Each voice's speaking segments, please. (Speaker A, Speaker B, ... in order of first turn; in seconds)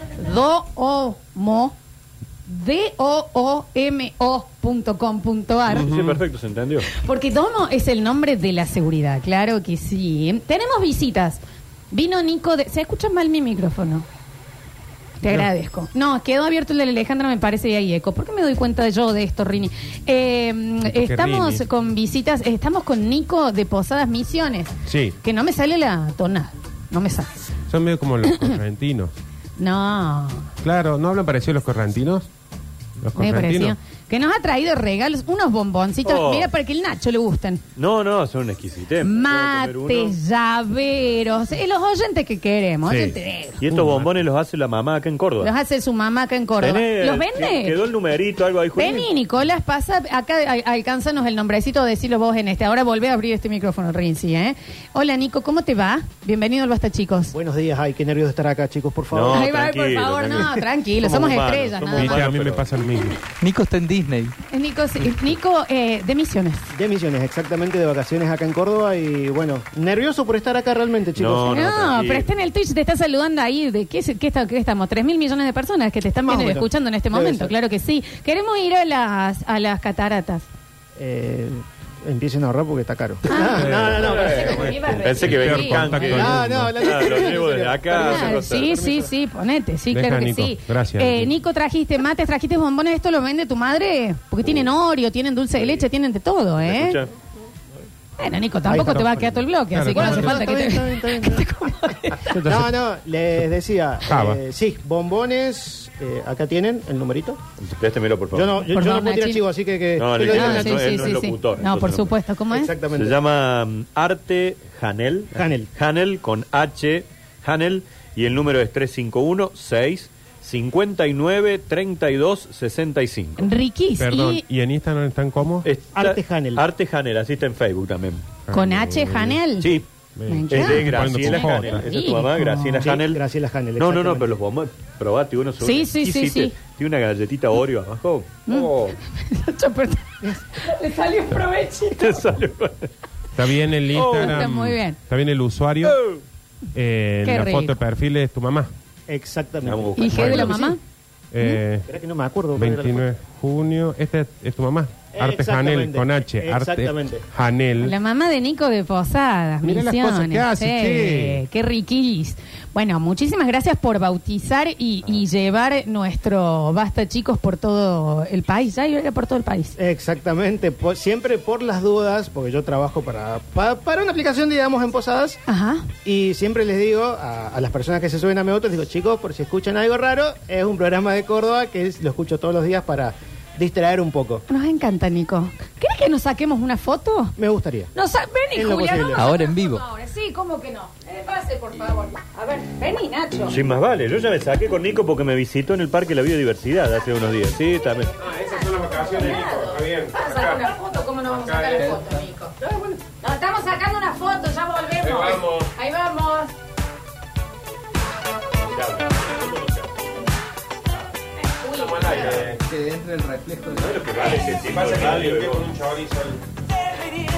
Speaker A: 0.2-1.8, 2.5-5.9, 6.9-11.4, 11.9-14.1, 15.2-27.4, 28.3-28.6, 29.6-30.5, 33.2-37.6, 39.0-43.6, 45.4-47.8, 48.8-57.3, 59.3-62.3, 64.5-66.7, 71.5-80.5, 83.3-86.2, 87.9-97.0, 98.2-102.3, 108.7-109.5, 110.2-112.7, 123.4-124.4, 128.5-129.7, 130.3-132.8, 135.6-136.6, 138.5-142.3, 144.0-145.0, 147.2-147.8, 150.0-150.8, 157.8-169.8, 175.5-175.9, 184.5-187.4, 187.9-193.6, 198.8-206.5, 211.5-212.4
Speaker B: 5.7-6.9, 36.0-36.5, 37.8-40.2, 43.6-45.5, 46.6-49.1, 59.1-62.6, 71.2-72.3, 83.6-88.8, 96.7-97.1, 107.6-108.7, 110.0-112.1, 112.9-123.5, 125.7-128.2, 130.5-133.2, 133.8-138.9, 142.0-142.9, 149.6-150.6, 193.5-198.1, 208.6-209.9, 213.7-215.7
Speaker C: 5.7-6.2, 20.9-21.6, 24.9-25.2, 27.7-29.1, 30.6-32.3, 33.0-33.8, 42.9-43.2, 43.7-44.1, 62.0-63.2, 85.2-86.8, 89.9-91.3, 99.7-100.5, 102.3-102.7, 104.0-104.4, 124.0-125.7, 128.5-129.4, 130.2-131.8, 143.4-146.0, 146.8-148.7, 151.3-151.9, 152.6-157.9, 159.6-161.4, 198.2-200.7, 201.3-202.0, 205.0-205.7, 211.7-212.6, 214.6-216.4
Speaker D: 57.3-59.4, 66.7-71.7, 76.3-77.5, 81.0-84.8, 86.0-88.4, 98.7-101.5, 102.3-107.4, 108.3-111.2, 112.5-113.2, 115.3-115.7, 126.0-126.6, 132.8-134.3, 149.1-150.8, 151.4-153.1, 155.1-157.2, 169.8-175.4, 176.1-184.4, 187.4-187.9, 188.5-189.3
Speaker E: 63.4-64.3, 189.2-189.8, 212.5-214.0